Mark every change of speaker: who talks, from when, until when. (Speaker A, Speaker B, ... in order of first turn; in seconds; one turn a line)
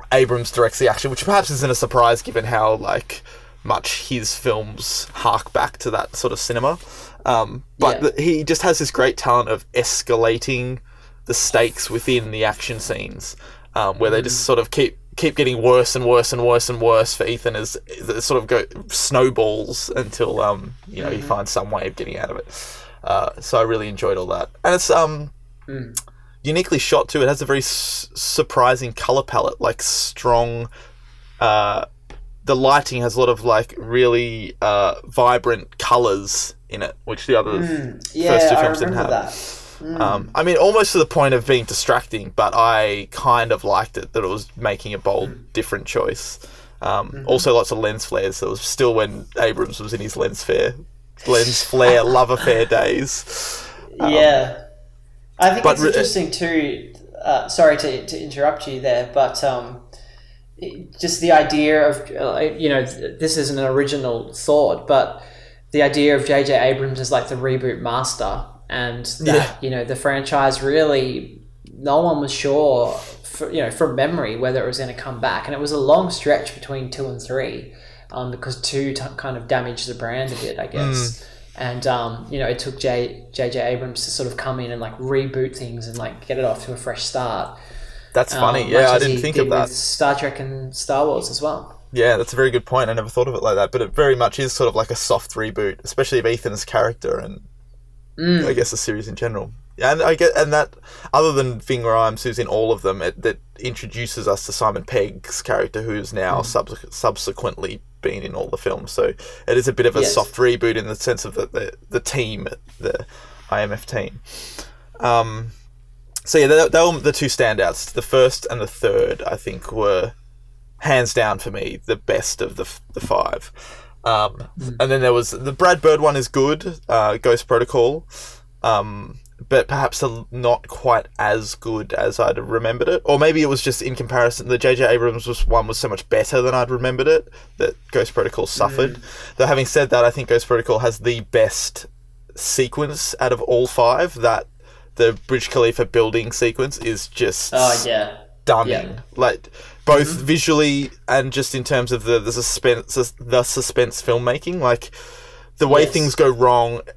Speaker A: 0.1-25.3
Speaker B: 7.8-8.1
Speaker B: 14.0-14.4
Speaker B: 21.0-21.4
Speaker B: 25.7-26.0
Speaker A: 26.4-30.7
Speaker A: 31.4-31.9
Speaker A: 32.4-54.4
Speaker B: 37.5-40.3
Speaker B: 47.1-47.4
Speaker B: 53.9-54.6
Speaker B: 55.4-59.8
Speaker A: 55.6-56.1
Speaker B: 60.6-87.6
Speaker A: 69.2-69.5
Speaker A: 80.8-81.2
Speaker A: 88.1-89.7
Speaker B: 88.3-91.8
Speaker A: 91.9-97.5
Speaker B: 98.2-98.6
Speaker A: 98.4-115.5
Speaker B: 109.9-110.3
Speaker A: 116.2-120.1
Speaker A: 120.8-128.1
Speaker A: 128.6-147.9
Speaker B: 138.6-139.0
Speaker B: 147.5-148.9
Speaker A: 148.4-154.9
Speaker B: 149.9-150.2
Speaker A: 155.6-156.8
Speaker B: 155.7-156.1